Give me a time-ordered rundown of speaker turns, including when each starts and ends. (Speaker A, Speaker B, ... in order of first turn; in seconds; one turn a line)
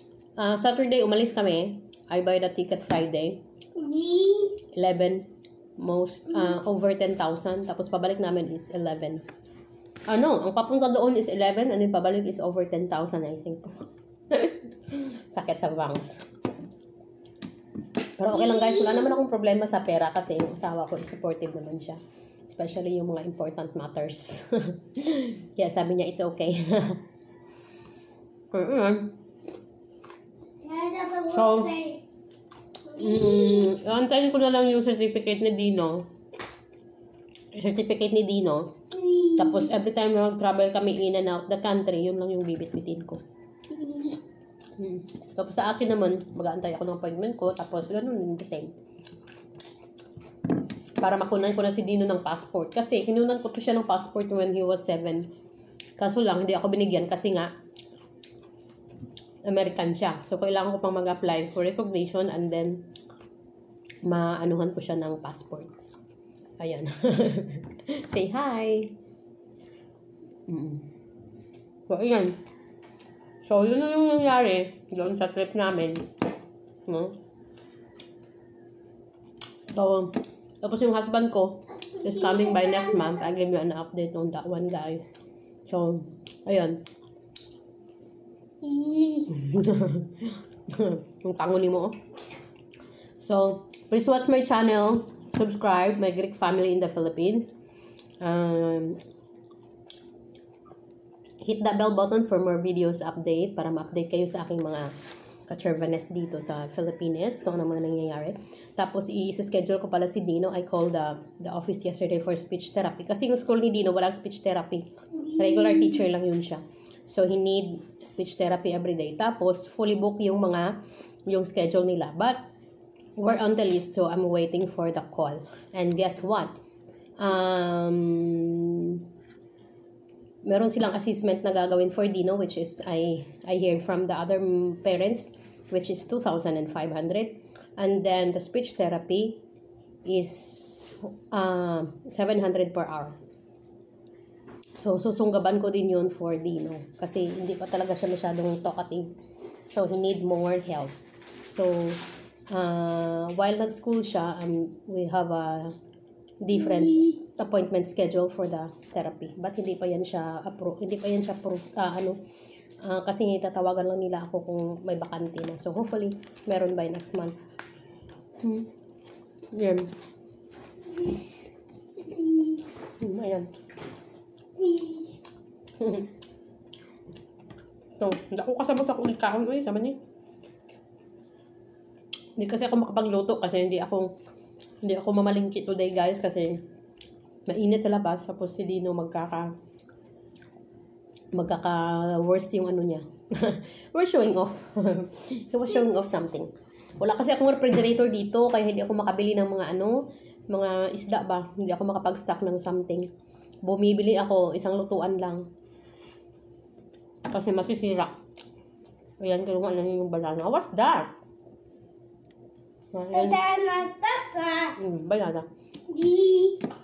Speaker A: 0.4-3.4
Speaker B: 3.7-4.6
Speaker A: 4.7-9.2
Speaker A: 10.1-13.7
Speaker A: 14.3-16.2
Speaker A: 18.2-27.0
Speaker A: 28.5-29.1
Speaker B: 30.6-32.0
Speaker A: 31.3-31.7
Speaker B: 32.9-33.7
Speaker A: 32.9-36.1
Speaker A: 37.5-38.7
Speaker B: 38.9-39.6
Speaker A: 39.3-43.2
Speaker B: 43.7-44.2
Speaker A: 44.8-48.7
Speaker A: 51.0-55.3
Speaker A: 56.0-57.5
Speaker A: 59.4-62.9
Speaker A: 64.0-65.7
Speaker A: 66.6-68.9
Speaker A: 70.5-70.9
Speaker A: 71.9-72.3
Speaker A: 73.4-76.1
Speaker A: 76.9-77.1
Speaker A: 79.7-85.1
Speaker B: 82.0-83.2
Speaker A: 85.7-86.8
Speaker B: 88.6-89.3
Speaker A: 89.3-92.0
Speaker A: 93.2-97.5
Speaker A: 98.2-99.0
Speaker A: 101.4-104.9
Speaker A: 105.5-122.4
Speaker B: 115.2-116.0
Speaker A: 123.2-126.5
Speaker A: 127.2-129.0
Speaker A: 130.4-139.4
Speaker A: 140.1-143.2
Speaker A: 144.7-149.1
Speaker A: 149.7-155.7
Speaker A: 156.4-162.2
Speaker A: 162.8-167.4
Speaker A: 168.4-168.7
Speaker A: 169.5-169.9
Speaker B: 172.1-172.6
Speaker A: 173.0-173.5
Speaker B: 174.6-175.1
Speaker A: 175.8-176.1
Speaker A: 178.0-180.0
Speaker A: 182.4-184.1
Speaker A: 184.8-186.6
Speaker A: 187.5-189.5
Speaker A: 191.3-203.1
Speaker A: 203.6-205.4
Speaker A: 207.3-208.1
Speaker A: 209.2-211.1
Speaker A: 212.9-213.4
Speaker B: 213.1-214.8
Speaker A: 214.8-215.5
Speaker B: 215.9-216.6